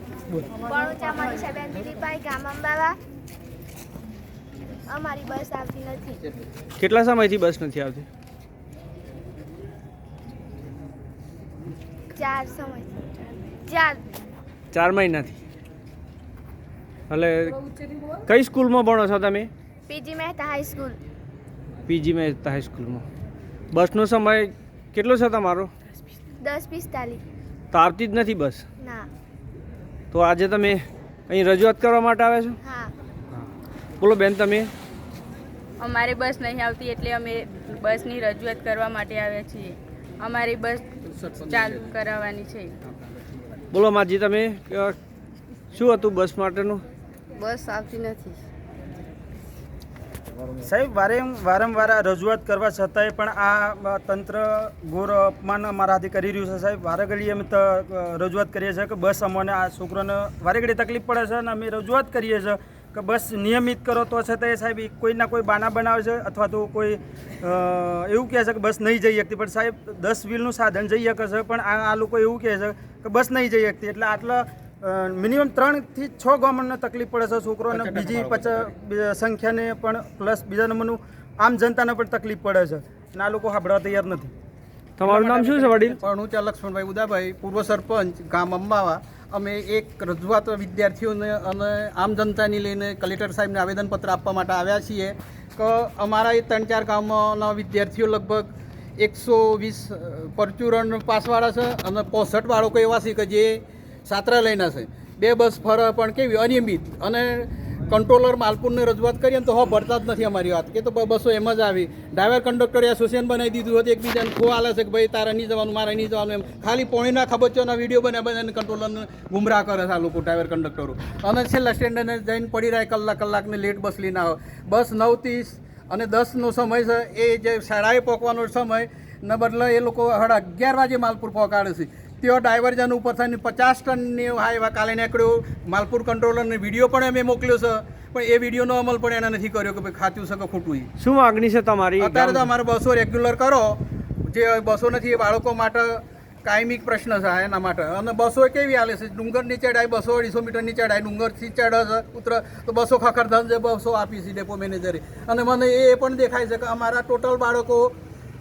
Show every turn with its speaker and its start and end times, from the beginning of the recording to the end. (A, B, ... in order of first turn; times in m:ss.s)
0:00.6-0:03.0 A
0:04.9-0:06.2 A
0:06.8-0:08.0 B
0:12.1-0:12.9 A
0:13.6-0:14.0 A
0:14.7-0:15.4 B
0:17.1-0:17.6 B
0:18.2-0:19.5 B
0:19.9-0:21.0 A
0:21.9-0:23.0 B
0:23.7-0:25.7 B
0:26.4-0:27.2 A
0:27.7-0:28.6 B
0:28.8-0:29.1 A
0:30.1-0:32.6 B
0:32.6-0:32.9 A
0:34.0-0:34.7 B
0:35.8-0:40.8 C
0:41.2-0:41.9 D
0:41.4-0:42.7 C
0:43.7-0:45.0 B
0:45.7-0:46.8 B
0:47.3-0:48.4 C
0:50.6-1:24.3 E
1:17.7-1:18.7 D
1:25.0-1:26.0 B
1:25.0-2:20.9 D
2:21.0-2:22.5 B
2:22.0-2:37.9 D